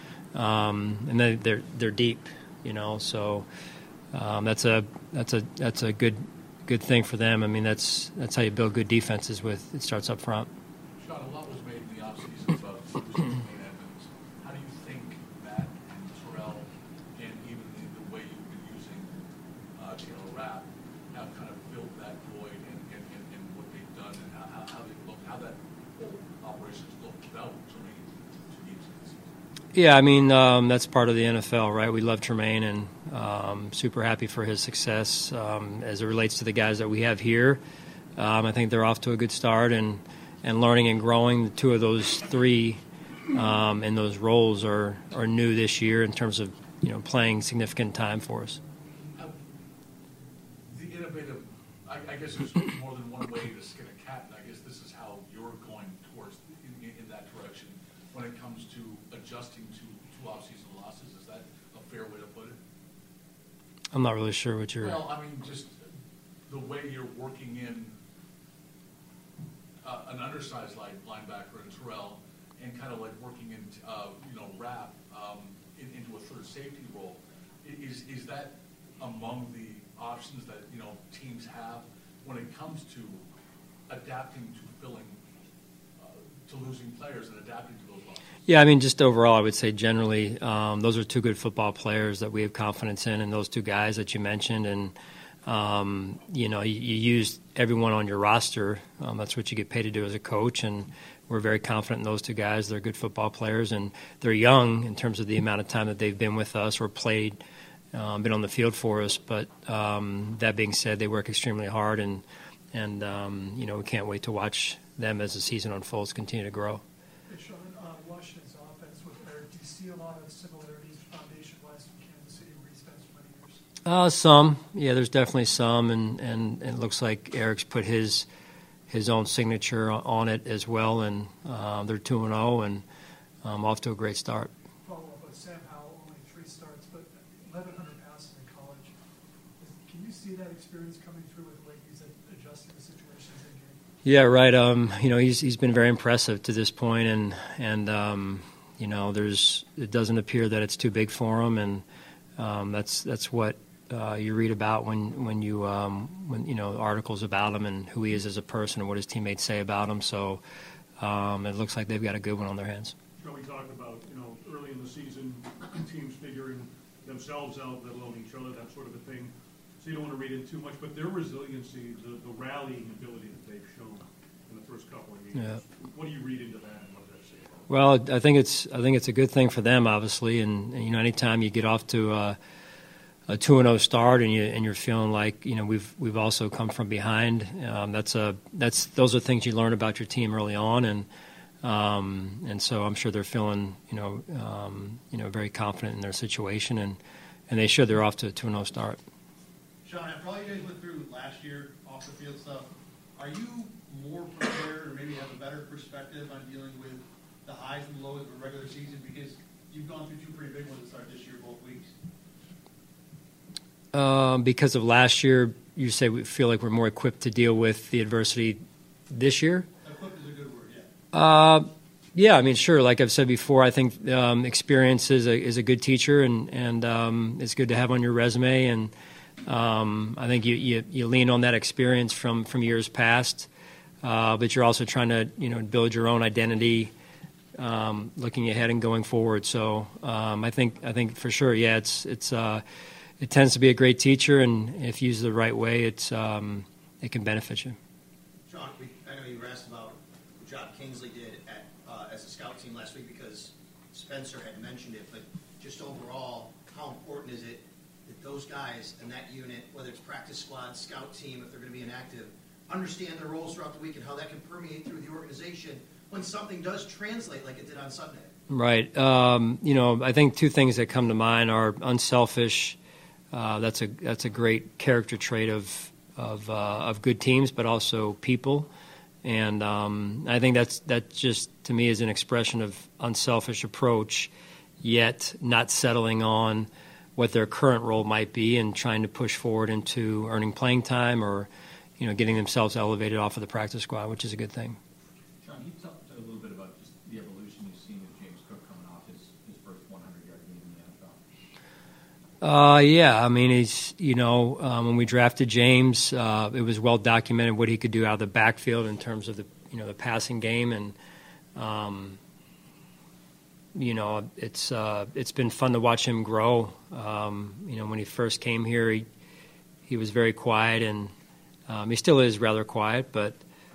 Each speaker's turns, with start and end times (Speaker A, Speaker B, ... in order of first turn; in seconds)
Speaker A: 0.3-3.5, 4.1-10.5, 29.7-37.6, 38.2-48.6, 63.9-65.0, 88.5-95.0, 95.5-107.4, 107.9-116.8, 123.8-128.3, 128.9-132.8, 133.4-134.5, 144.0-151.8, 152.4-160.4, 161.0-163.0, 175.3-175.6, 177.7-182.4, 183.3-191.1, 191.6-199.0, 213.9-219.7, 221.1-228.9, 229.4-233.5, 234.0-236.9, 237.6-242.6, 243.2-247.8, 268.5-272.8, 273.3-278.7, 279.2-294.8, 302.4-311.0, 311.6-312.2, 313.8-319.1, 319.9-321.1, 321.7-323.4
Speaker B: 11.0-19.1, 19.8-29.4, 50.7-62.6, 64.8-65.8, 66.5-68.0, 69.8-83.2, 83.9-85.2, 86.0-88.3
Speaker C: 117.3-123.6, 134.8-138.9, 139.6-143.8
Speaker D: 163.2-177.7
Speaker E: 199.8-211.9, 220.1-220.8, 248.5-268.3
Speaker F: 295.4-301.2